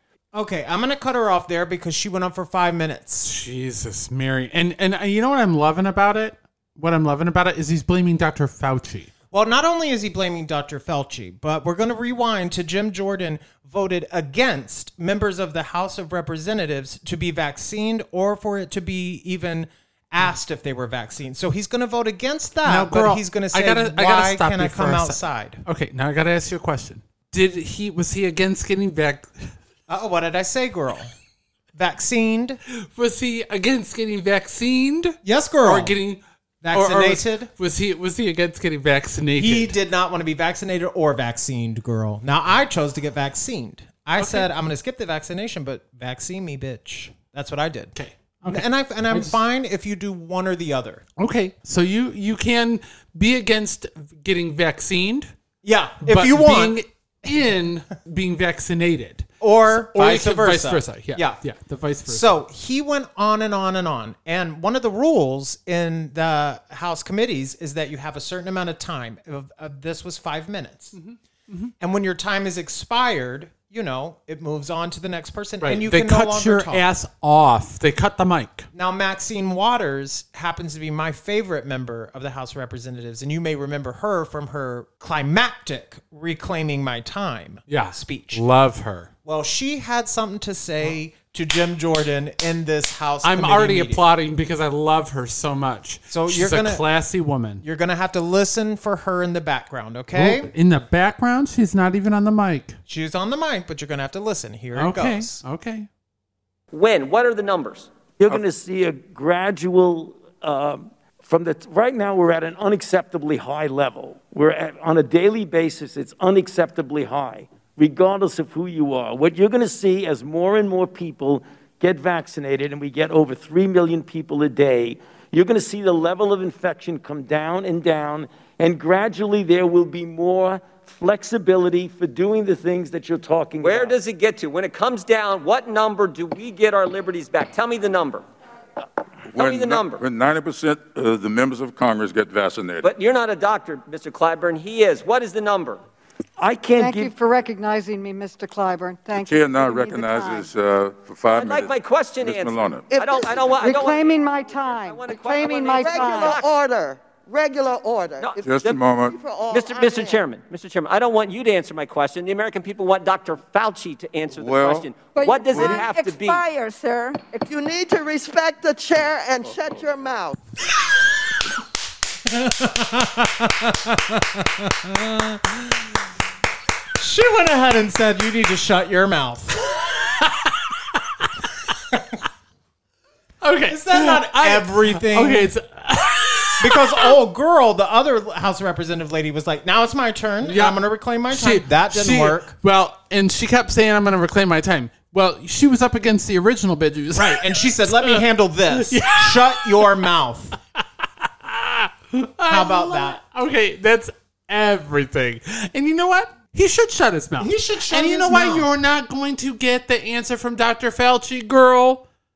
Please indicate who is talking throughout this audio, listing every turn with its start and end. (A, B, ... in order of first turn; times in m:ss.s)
0:00.3-0:03.3 A
0:03.2-0:09.1 B
0:09.3-0:25.6 A
0:22.6-0:29.6 B
0:29.9-0:31.1 A
0:31.7-0:32.6 A
0:32.7-0:39.8 B
0:35.2-0:36.0 A
0:36.6-0:37.5 A
0:39.4-0:48.0 A
0:44.2-0:44.5 B
0:48.0-0:49.4 B
0:48.5-0:51.0 A
0:51.2-0:55.3 B
0:55.6-0:56.8 A
0:56.0-1:02.4 B
0:59.4-1:01.4 A
1:02.1-1:11.0 A
1:10.9-1:11.7 B
1:11.8-1:16.8 A
1:15.6-1:18.7 B
1:18.7-1:28.4 A
1:27.7-1:29.1 B
1:29.2-1:34.0 A
1:33.2-1:37.6 B
1:36.1-1:36.8 A
1:37.6-1:40.5 A
1:40.1-1:42.8 B
1:42.9-1:45.4 A
1:44.7-1:45.9 B
1:46.7-1:47.9 C
1:48.2-2:14.0 D
2:13.6-2:18.2 C
2:19.3-2:20.0 C
2:19.3-2:22.9 E
2:22.8-2:25.8 C
2:26.4-2:27.1 D
2:26.7-2:30.5 F
2:29.2-2:32.9 E
2:31.3-2:36.5 C
2:32.9-2:33.7 G
2:33.6-2:36.4 F
2:35.8-2:40.2 G
2:38.2-2:38.8 C
2:38.4-2:39.2 E
2:39.5-2:46.4 C
2:44.3-2:44.9 E
2:45.2-2:47.2 H
2:45.5-2:45.8 E
2:47.3-2:50.4 G
2:52.2-2:55.9 A
2:57.0-2:59.7 A
2:59.8-3:02.0 B
3:03.4-3:07.2 B
3:03.7-3:05.5 A
3:06.6-3:12.5 A
3:10.4-3:20.1 B
3:17.1-3:20.6 A
3:20.8-3:32.0 B
3:22.5-3:23.2 A
3:27.4-3:28.7 A